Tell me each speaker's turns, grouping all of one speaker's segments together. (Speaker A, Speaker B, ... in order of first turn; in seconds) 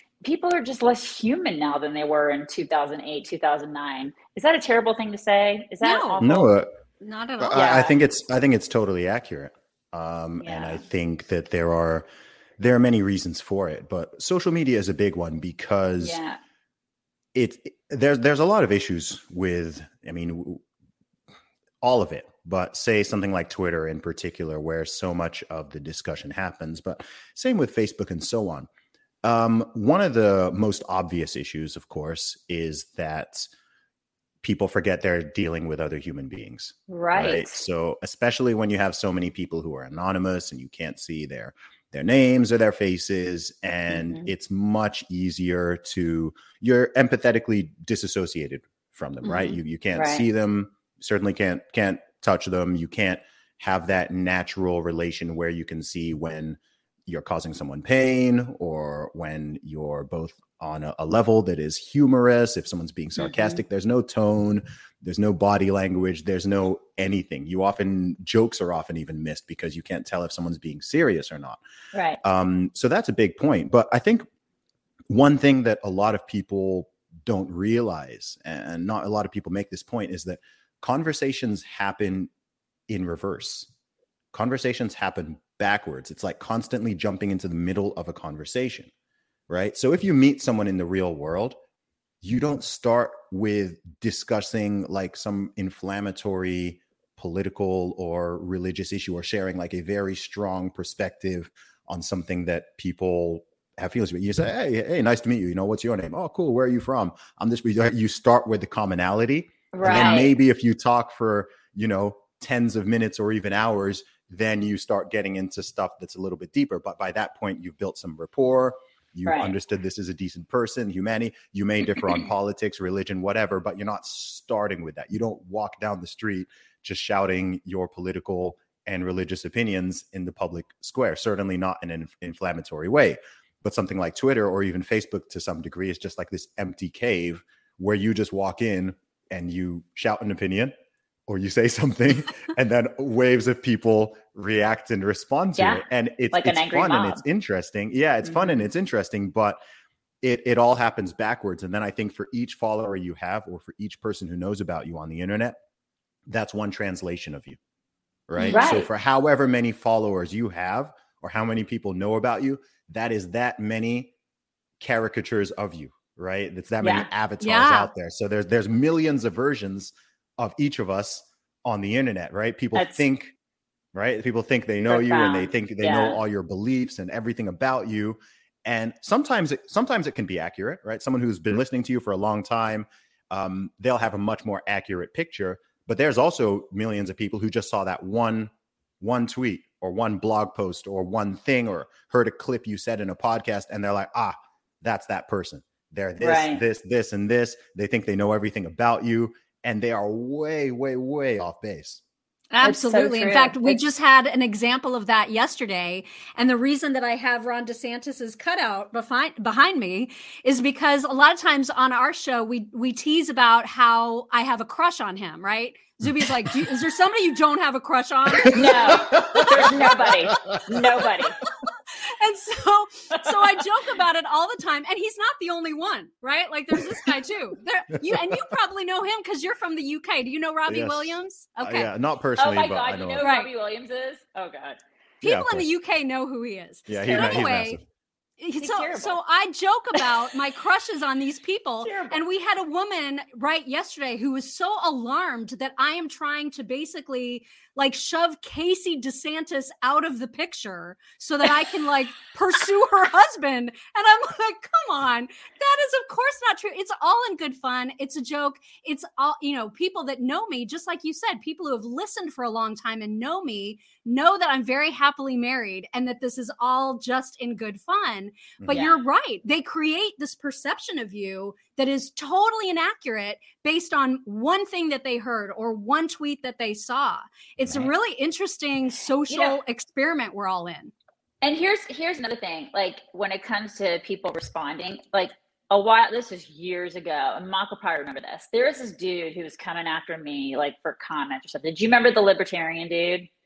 Speaker A: 0.2-6.5, 7.5-8.0, 10.4-10.8, 16.0-16.4, 36.9-37.5, 43.9-44.3, 49.9-50.2, 63.2-63.6, 71.9-72.2, 109.7-110.3, 119.2-119.5, 145.6-147.2, 148.2-148.7, 158.4-158.9, 166.8-167.1, 172.7-173.0, 174.9-176.2, 196.2-196.6, 202.6-203.8, 218.5-221.4, 232.4-234.8, 237.0-237.5, 238.6-239.2, 241.8-242.2, 268.7-269.0, 279.3-279.6, 281.4-293.3
Speaker B: 5.8-6.2, 7.0-7.6, 158.4-158.6, 167.4-167.9, 202.5-219.8, 222.2-231.9, 233.2-233.5, 235.2-237.8, 238.4-280.9
Speaker C: 6.2-6.7, 7.4-12.1, 12.6-16.2, 17.3-20.6, 21.8-28.7, 29.2-33.5, 34.4-71.6, 72.2-74.2, 75.1-82.3, 82.9-83.7, 84.3-88.9, 89.5-91.6, 92.2-140.7, 141.3-149.6, 150.2-155.6, 156.3-157.6, 158.3-164.1, 164.8-173.3, 173.9-202.0, 216.2-216.5, 218.4-220.8, 230.7-233.2, 235.2-235.7, 236.9-237.8, 268.6-268.9, 277.6-277.9